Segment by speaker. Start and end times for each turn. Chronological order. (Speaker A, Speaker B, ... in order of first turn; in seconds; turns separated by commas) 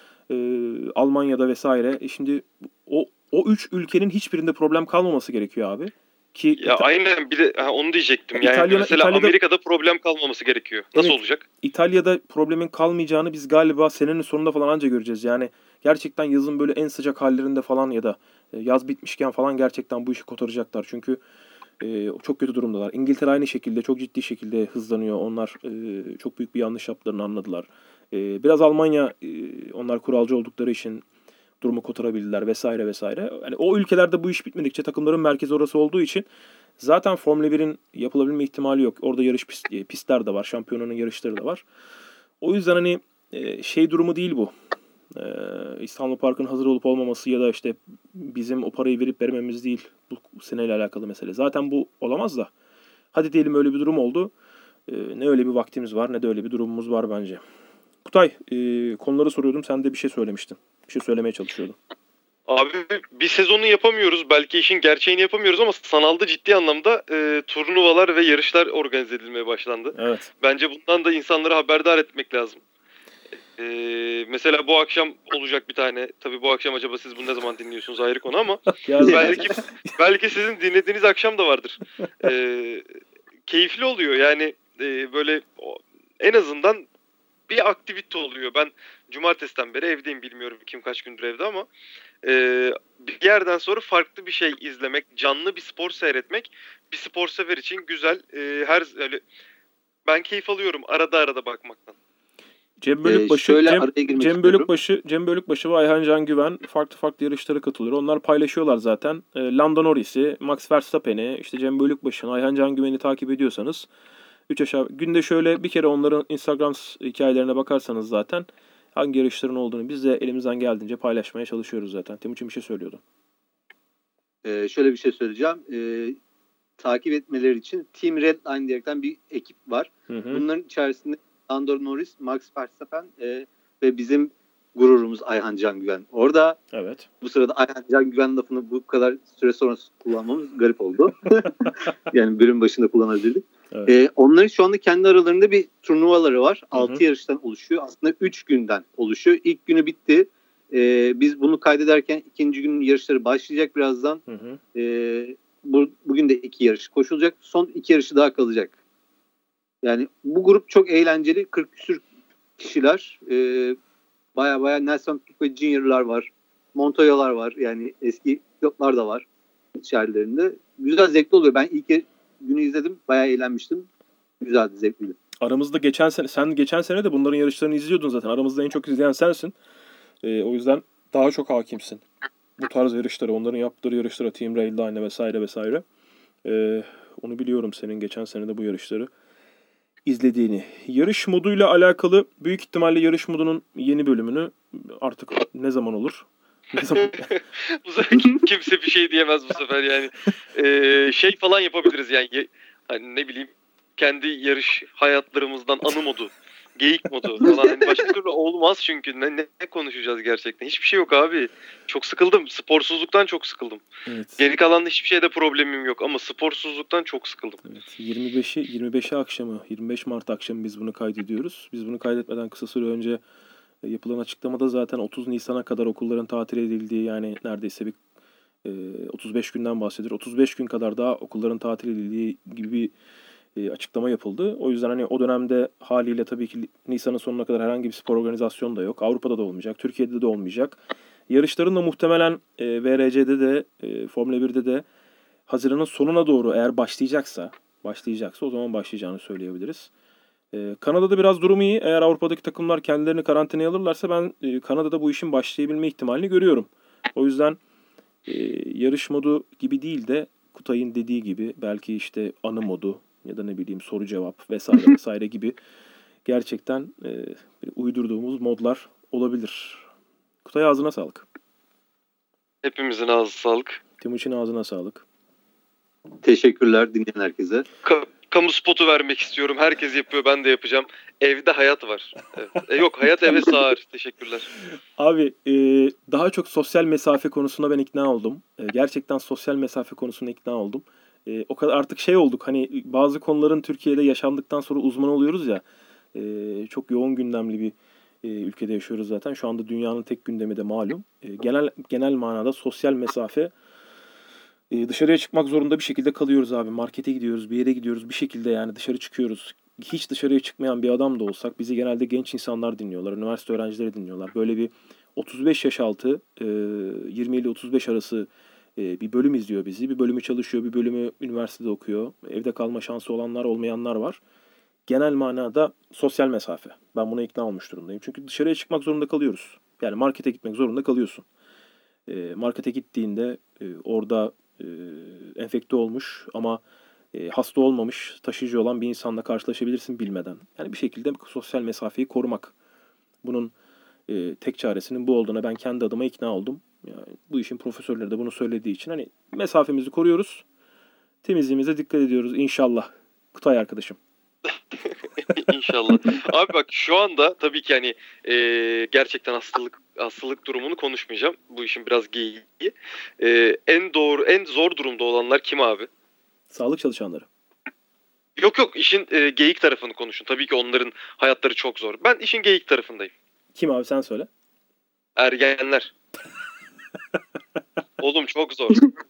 Speaker A: 0.3-6.9, Speaker B: 6.6-11.4, Speaker A: 8.3-9.3, Speaker A: 10.9-21.2, Speaker A: 21.8-31.0, Speaker A: 31.6-36.2, Speaker A: 36.8-41.6, Speaker A: 42.4-44.5, Speaker A: 45.1-52.5, Speaker A: 53.1-54.3, Speaker A: 54.9-57.4, Speaker A: 58.0-61.8, Speaker B: 62.5-72.6, Speaker A: 69.9-70.3, Speaker B: 73.6-82.8, Speaker A: 78.8-79.9, Speaker C: 79.0-79.5, Speaker A: 82.0-82.3, Speaker B: 83.5-86.9, Speaker B: 87.5-91.7, Speaker B: 92.2-99.2, Speaker B: 100.0-102.0, Speaker A: 102.8-113.9, Speaker C: 103.0-104.7, Speaker A: 114.5-123.0, Speaker C: 124.4-126.2, Speaker C: 126.8-136.6, Speaker A: 130.1-130.4, Speaker A: 136.7-137.1, Speaker C: 137.2-154.2, Speaker A: 146.7-147.0, Speaker A: 154.3-154.6, Speaker C: 154.7-158.7, Speaker C: 159.8-162.0, Speaker C: 162.6-163.8, Speaker C: 164.3-173.9, Speaker C: 174.4-175.2, Speaker A: 175.4-179.6, Speaker A: 180.2-182.0, Speaker A: 182.6-185.8, Speaker A: 186.4-189.1, Speaker A: 190.1-197.3, Speaker B: 196.9-213.8, Speaker C: 207.4-208.1, Speaker A: 214.1-214.4, Speaker B: 214.4-217.6, Speaker A: 217.6-223.2, Speaker A: 223.8-228.0, Speaker A: 228.6-232.9, Speaker A: 233.6-244.8, Speaker A: 245.5-249.9, Speaker A: 250.5-257.6, Speaker A: 258.3-265.6, Speaker A: 266.2-269.9, Speaker A: 270.4-271.2, Speaker B: 272.6-273.8, Speaker A: 274.0-275.0, Speaker C: 276.2-277.6, Speaker B: 277.8-284.5, Speaker A: 285.0-303.5, Speaker A: 304.7-324.2, Speaker A: 324.9-331.2, Speaker A: 332.1-336.6, Speaker A: 337.1-342.5, Speaker A: 343.2-343.5, Speaker A: 344.1-350.4, Speaker A: 351.2-354.0, Speaker B: 354.5-365.9, Speaker A: 366.5-367.3, Speaker B: 368.4-373.1, Speaker A: 373.5-374.3, Speaker B: 375.1-375.9, Speaker B: 378.0-378.9